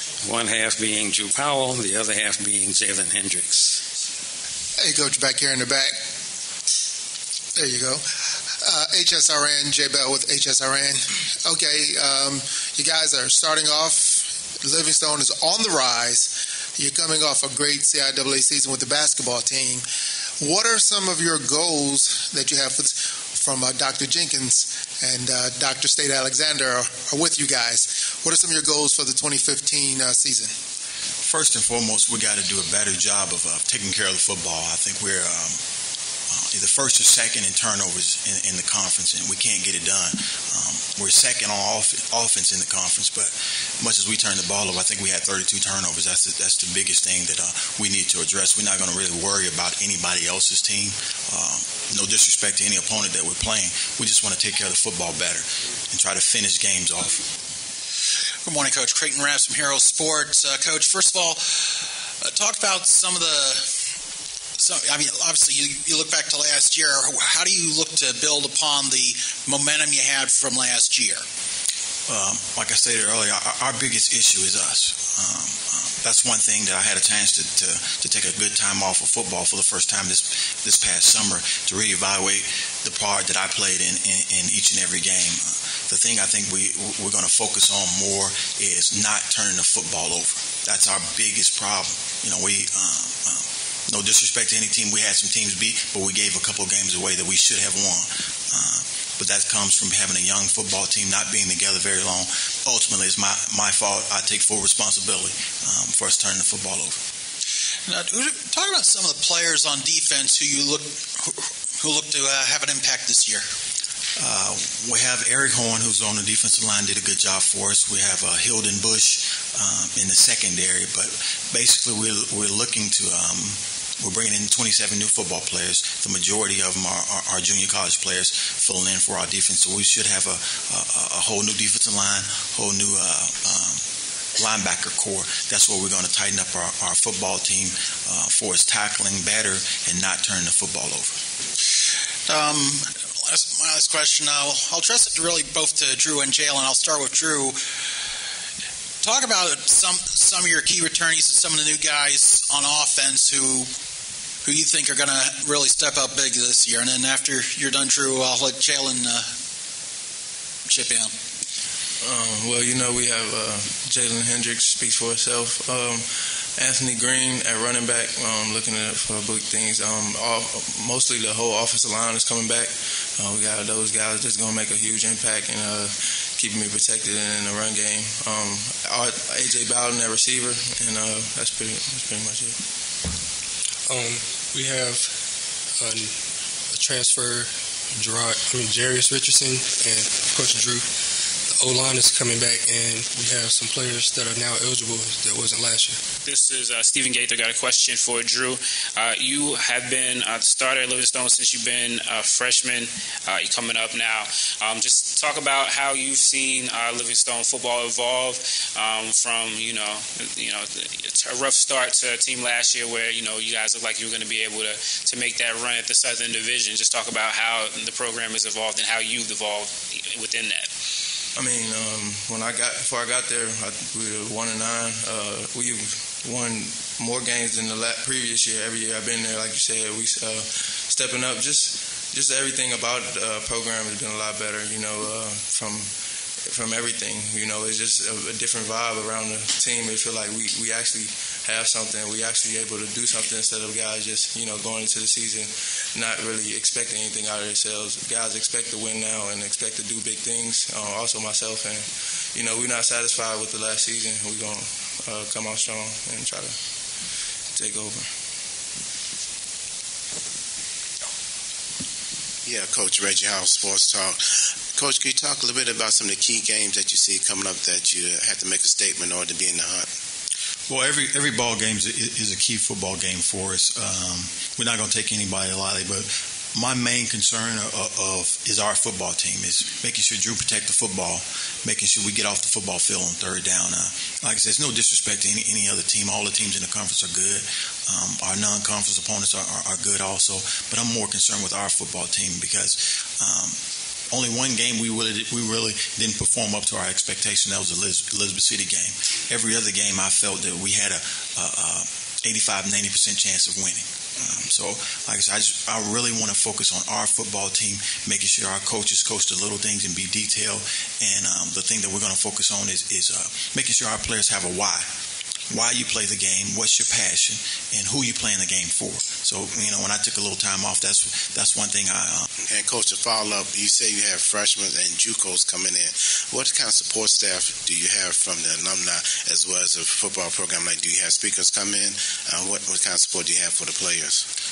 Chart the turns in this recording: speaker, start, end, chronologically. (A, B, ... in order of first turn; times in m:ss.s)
0:00.2-0:03.7 A
0:04.8-0:06.0 B
0:07.5-0:19.8 B
0:20.4-0:30.5 B
0:31.2-0:35.6 C
0:36.3-0:57.2 C
0:58.4-1:01.5 D
1:02.2-1:03.7 D
1:04.6-1:11.2 D
1:12.1-1:47.0 C
1:47.8-1:53.5 D
1:54.2-2:13.8 C
2:14.4-2:21.2 C
2:22.3-2:27.6 D
2:29.0-2:33.7 D
2:34.4-2:39.3 D
2:40.7-2:41.1 D
2:42.0-3:02.6 E
3:03.8-3:05.2 F
3:05.8-3:06.2 F
3:06.7-3:10.9 F
3:11.5-3:16.0 F
3:16.2-3:40.7 G
3:41.3-4:16.6 E
4:17.5-4:18.1 E
4:22.4-4:29.9 H
4:30.7-4:53.6 C
4:54.1-5:14.9 C
5:15.5-5:22.3 C
5:22.4-5:34.2 H